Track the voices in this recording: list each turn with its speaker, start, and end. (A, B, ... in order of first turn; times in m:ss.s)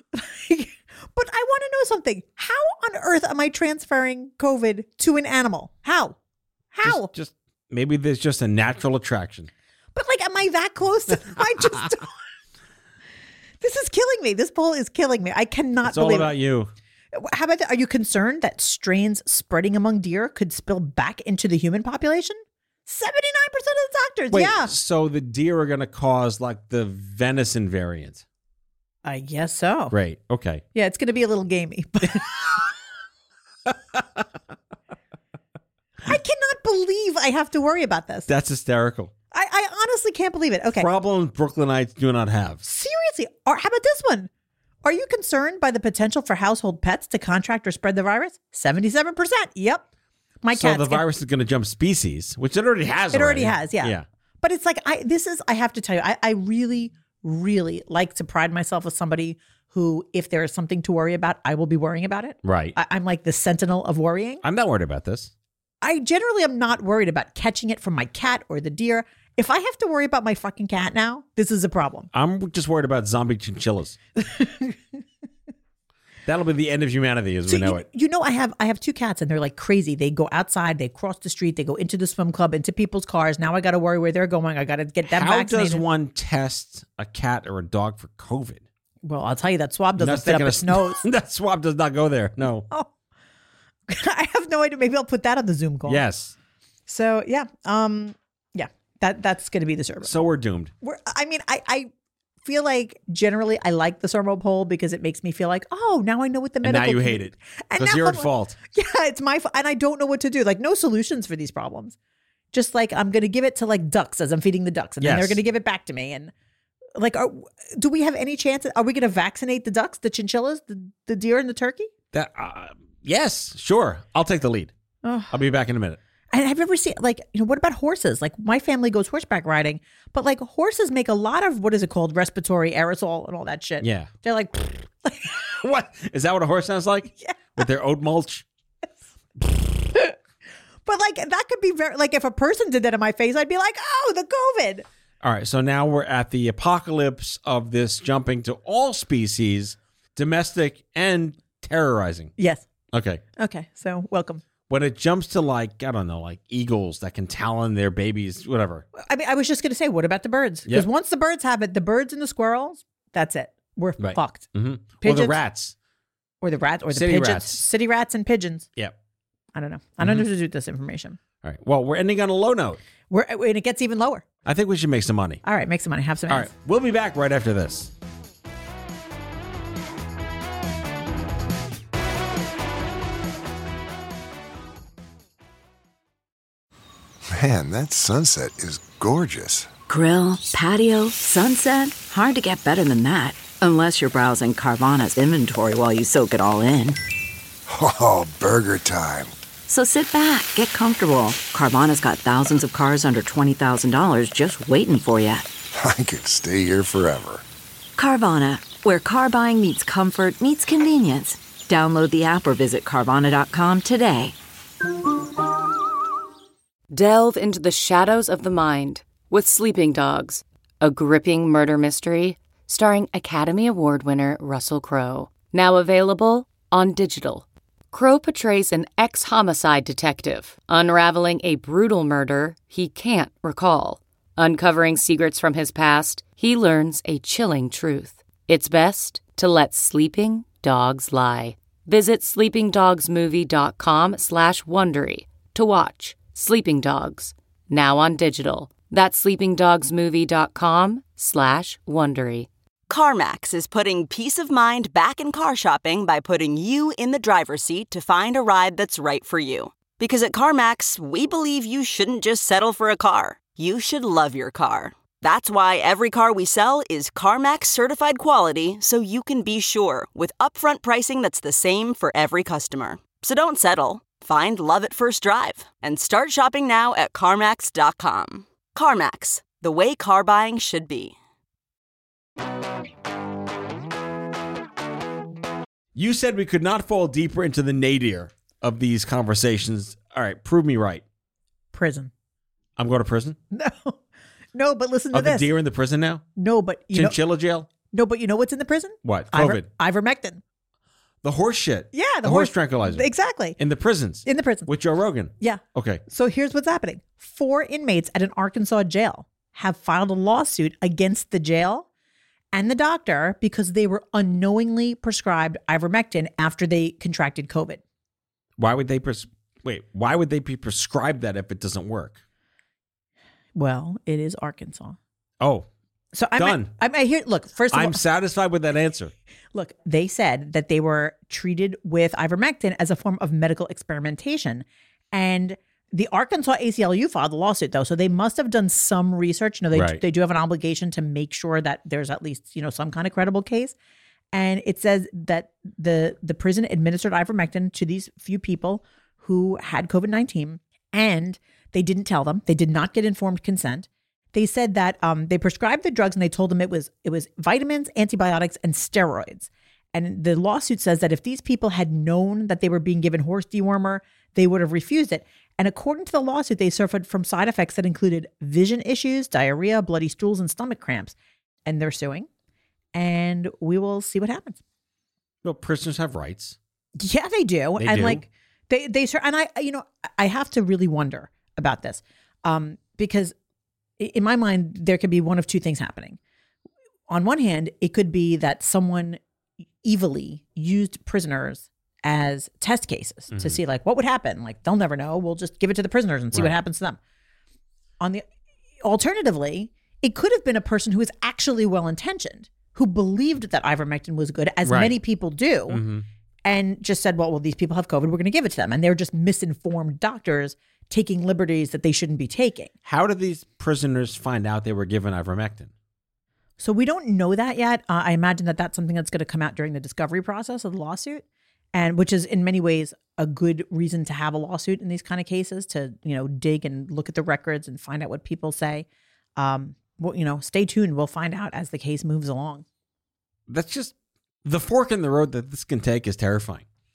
0:00.1-0:06.2 A
0:06.7-0:07.1 A
0:06.8-0:09.5 B
0:09.9-0:12.1 A
0:13.6-0:16.3 A
0:15.8-0:16.7 B
0:17.1-0:24.7 A
0:24.3-0:28.2 B
0:29.0-0:29.9 A
0:29.9-0:30.6 B
0:30.7-0:32.3 A
0:33.6-0:34.2 B
0:36.0-0:38.3 A
0:38.3-0:39.1 B
0:39.3-0:40.9 A
0:40.8-0:42.6 B
0:42.6-0:44.3 A
0:44.8-0:49.8 A
0:50.4-0:51.0 A
0:50.5-0:54.0 B
0:53.1-1:04.4 A
1:02.4-1:02.8 B
1:04.4-1:05.3 B
1:05.8-1:12.1 A
1:12.1-1:14.0 B
1:14.2-1:14.8 A
1:16.2-1:17.8 B
1:17.5-1:25.8 A
1:25.0-1:28.6 B
1:29.0-1:31.0 A
1:30.0-1:32.7 B
1:33.9-1:36.0 A
1:35.9-1:36.3 B
1:36.9-1:40.2 A
1:40.0-1:40.7 B
1:40.8-1:41.9 A
1:42.4-1:52.0 A
1:46.6-1:48.6 B
1:52.5-1:56.3 A
1:55.0-1:55.4 B
1:57.0-2:01.9 A
2:02.1-2:04.7 B
2:05.0-2:05.3 A
2:05.3-2:06.0 B
2:06.3-2:15.4 A
2:13.8-2:14.1 B
2:15.5-2:18.4 B
2:17.2-2:17.6 A
2:19.9-2:20.2 A
2:20.9-2:24.8 A
2:25.2-2:32.3 B
2:32.4-2:32.6 A
2:32.9-2:33.2 B
2:33.4-2:34.4 A
2:34.7-2:38.9 B
2:39.0-2:44.5 A
2:44.0-2:45.7 B
2:45.0-2:45.4 A
2:46.4-2:48.7 A
2:46.9-2:47.6 B
2:49.5-2:51.2 A
2:50.0-2:50.2 B
2:51.4-2:52.8 B
2:53.1-2:54.2 A
2:54.4-2:55.4 B
2:55.4-2:56.5 A
2:56.3-2:57.9 B
3:07.3-3:09.7 C
3:09.9-3:17.0 D
3:17.7-3:19.3 C
3:19.7-3:25.5 D
3:25.7-3:27.4 C
3:28.0-3:34.4 D
3:36.9-4:12.5 E
4:12.9-4:41.1 F
4:45.9-4:51.0 B
4:51.7-4:52.1 A
4:52.8-4:53.4 B
4:53.5-4:54.0 A
4:54.5-4:55.5 A
4:55.1-4:56.2 B
4:56.4-4:57.2 A
4:56.9-4:57.7 B
4:57.9-5:00.4 A
4:59.0-4:59.7 B
5:01.2-5:06.0 B
5:01.9-5:03.6 A
5:04.2-5:04.7 A
5:05.4-5:11.9 A
5:12.5-5:17.8 A
5:18.6-5:22.2 B
5:23.5-5:25.0 A
5:25.4-5:25.7 B
5:26.1-5:28.0 A
5:26.4-5:26.7 B
5:27.7-5:29.1 B
5:29.5-5:43.7 A
5:39.7-5:40.0 B
5:44.3-6:12.3 A
6:12.9-6:14.6 A
6:15.4-6:16.6 B
6:17.0-6:23.3 A
6:17.8-6:18.2 B
6:24.0-6:26.2 A
6:27.1-6:29.2 A
6:29.8-6:37.0 A
6:33.3-6:33.6 B
6:38.8-6:45.8 A
6:44.6-6:45.0 B
6:45.7-6:46.0 B
6:46.4-6:52.7 A
6:52.8-6:55.7 B
6:56.6-7:12.6 A
7:13.5-7:16.6 B